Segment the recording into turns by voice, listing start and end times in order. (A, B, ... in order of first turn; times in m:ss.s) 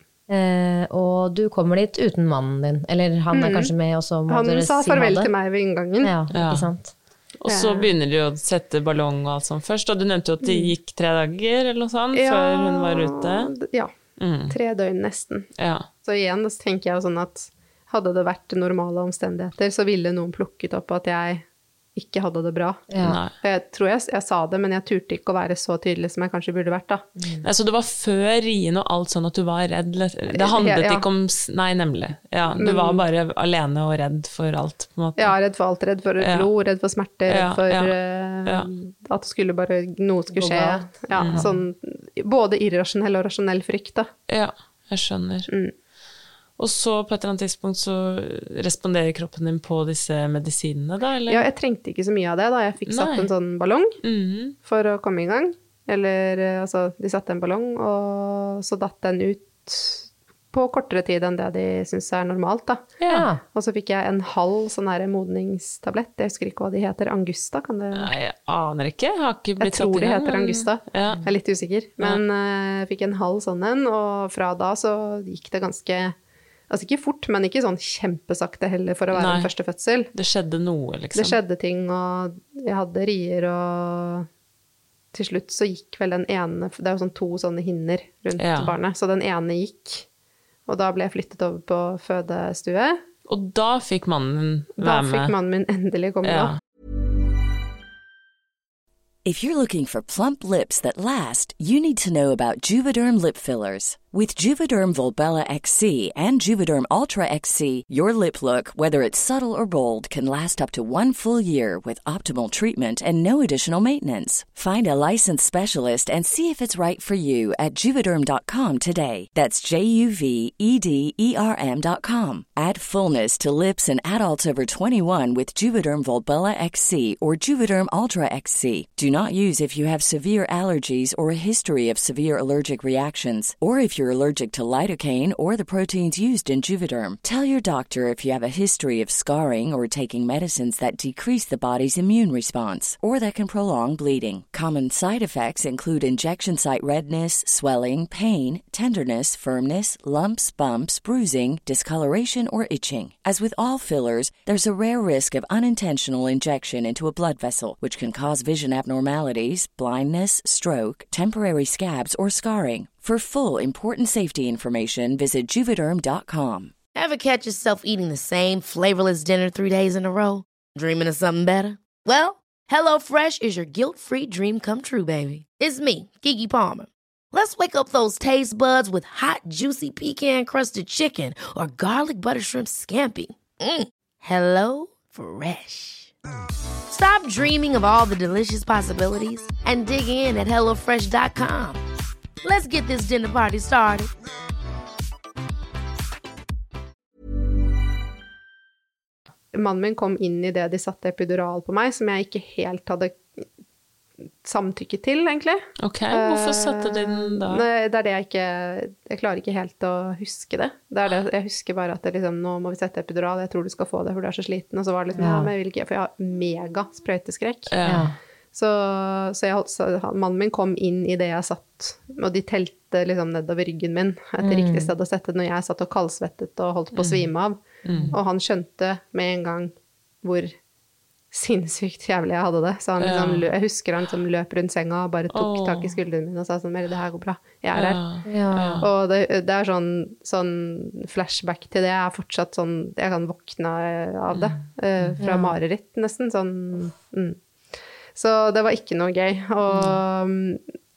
0:00.3-0:05.3 A
0:03.3-0:03.7 B
0:04.3-0:06.1 B
0:06.0-0:06.9 A
0:06.3-0:06.7 C
0:07.4-0:13.5 C
0:07.5-0:07.9 B
0:12.1-0:13.9 B
0:14.2-0:14.5 C
0:14.5-0:15.5 B
0:15.6-0:15.8 C
0:16.0-0:22.9 B
0:22.9-0:23.2 A
0:23.0-0:23.3 C
0:23.4-0:27.0 B
0:27.2-0:27.4 A
0:27.4-0:35.4 C
0:30.3-0:31.0 B
0:32.6-0:33.0 B
0:35.2-0:44.1 B
0:36.2-0:36.5 C
0:37.3-0:38.7 C
0:40.3-0:41.6 A
0:41.2-0:41.5 C
0:44.3-0:45.5 C
0:46.6-0:51.4 C
0:51.3-0:54.0 B
0:52.9-0:53.3 C
0:54.0-0:54.6 C
0:54.6-1:02.9 B
1:03.0-1:03.3 C
1:03.1-1:03.4 A
1:03.5-1:08.1 B
1:07.9-1:11.2 C
1:09.6-1:16.1 B
1:16.7-1:20.1 B
1:19.1-1:19.5 C
1:20.1-1:21.4 C
1:21.1-1:24.3 B
1:25.1-1:30.0 B
1:28.4-1:28.7 C
1:30.7-1:33.0 B
1:33.3-1:35.3 C
1:34.8-1:36.5 B
1:36.2-1:36.6 C
1:39.2-2:46.7 D
2:46.9-3:06.1 E
3:06.9-3:11.8 E
3:12.4-3:14.1 E
3:19.5-3:23.4 B
3:24.4-3:37.7 B
3:25.8-3:27.6 C
3:35.1-3:35.5 A
3:37.7-3:38.1 C
3:37.8-3:38.2 A
3:38.5-3:50.5 B
3:44.4-3:44.9 A
3:47.0-3:47.3 C
3:47.8-3:48.1 C
3:47.9-3:48.2 A
3:51.3-3:58.0 B
3:53.0-3:53.5 C
3:55.3-3:55.9 C
3:57.7-3:58.8 C
3:58.2-3:58.8 A
3:58.8-4:07.4 B
4:04.3-4:05.1 C
4:05.2-4:05.6 A
4:08.1-4:10.6 B